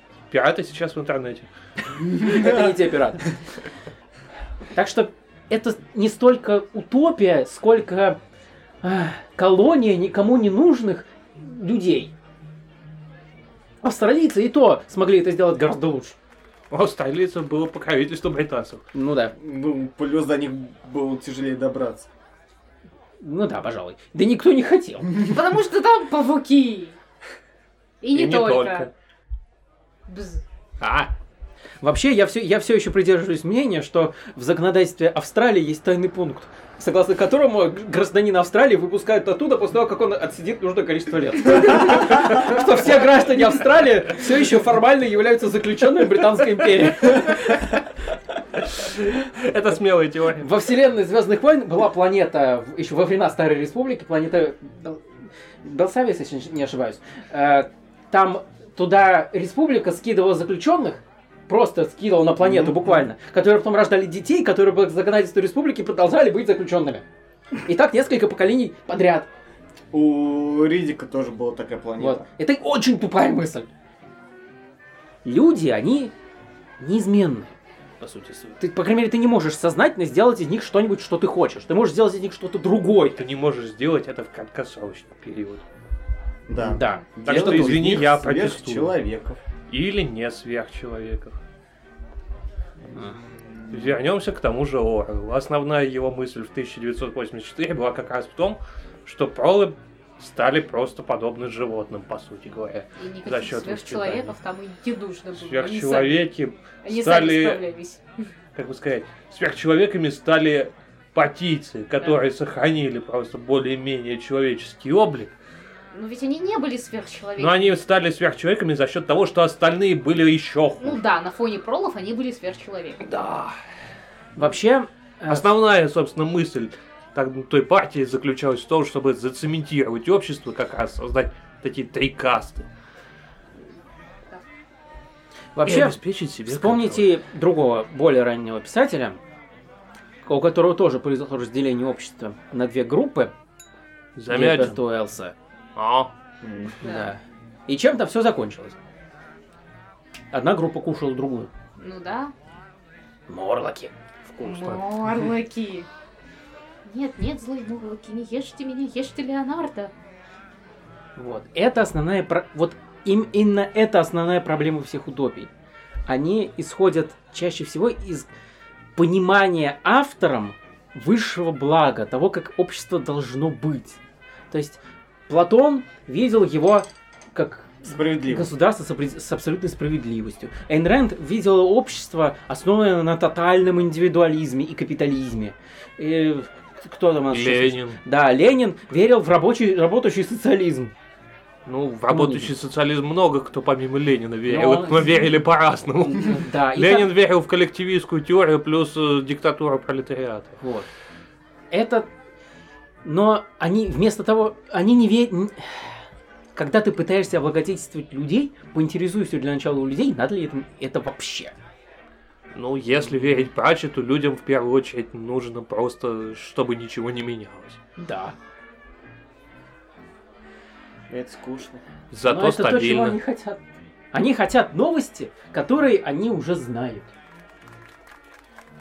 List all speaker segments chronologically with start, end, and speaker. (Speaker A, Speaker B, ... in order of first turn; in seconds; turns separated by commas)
Speaker A: 0.3-1.5, Speaker B: 2.1-3.3, Speaker B: 4.7-8.2, Speaker B: 8.8-12.1, Speaker B: 13.8-16.2, Speaker A: 16.7-18.8, Speaker B: 18.9-19.4, Speaker C: 19.4-22.1, Speaker B: 23.2-25.2, Speaker D: 25.2-27.0, Speaker D: 28.0-28.9, Speaker A: 28.1-28.9, Speaker D: 30.1-30.4, Speaker A: 30.8-31.1, Speaker B: 31.8-47.6, Speaker A: 48.6-50.5, Speaker B: 50.4-55.0, Speaker B: 55.6-67.0, Speaker C: 62.4-63.0, Speaker B: 67.6-69.3, Speaker C: 69.9-72.3, Speaker B: 72.0-73.7, Speaker B: 75.2-76.1, Speaker B: 76.8-83.2, Speaker A: 83.2-85.6, Speaker C: 86.5-89.4, Speaker B: 86.6-87.9, Speaker A: 87.2-88.9, Speaker A: 89.7-91.4, Speaker C: 93.4-93.9, Speaker A: 93.7-104.3, Speaker D: 103.0-106.2, Speaker A: 105.3-107.6, Speaker D: 106.8-108.0, Speaker A: 108.5-115.3, Speaker D: 115.9-117.8, Speaker A: 117.4-121.0, Speaker D: 120.8-123.0, Speaker A: 123.0-123.6, Speaker B: 124.4-125.5, Speaker A: 125.3-132.7, Speaker B: 135.6-139.2, Speaker A: 135.7-137.1, Speaker B: 140.2-143.3, Speaker A: 144.2-144.8, Speaker B: 144.3-145.3, Speaker A: 145.8-146.1, Speaker C: 146.4-146.8, Speaker D: 146.8-147.1, Speaker B: 146.8-148.8, Speaker B: 150.3-151.5, Speaker D: 151.8-152.3, Speaker B: 153.3-153.9, Speaker A: 154.3-154.9, Speaker D: 154.4-155.9, Speaker D: 156.8-159.9, Speaker B: 161.2-165.5, Speaker B: 166.1-168.3, Speaker B: 169.0-174.0, Speaker B: 174.5-190.9, Speaker C: 177.8-178.5, Speaker A: 187.3-188.0, Speaker A: 191.7-200.6, Speaker B: 192.1-192.5, Speaker B: 194.5-195.3, Speaker B: 196.0-197.1, Speaker B: 200.6-200.9, Speaker B: 201.7-202.1, Speaker B: 203.0-206.0, Speaker B: 206.6-211.6, Speaker A: 212.5-217.8, Speaker B: 218.0-218.3, Speaker C: 221.1-221.8, Speaker A: 222.1-223.2, Speaker B: 222.2-223.6, Speaker B: 224.1-227.1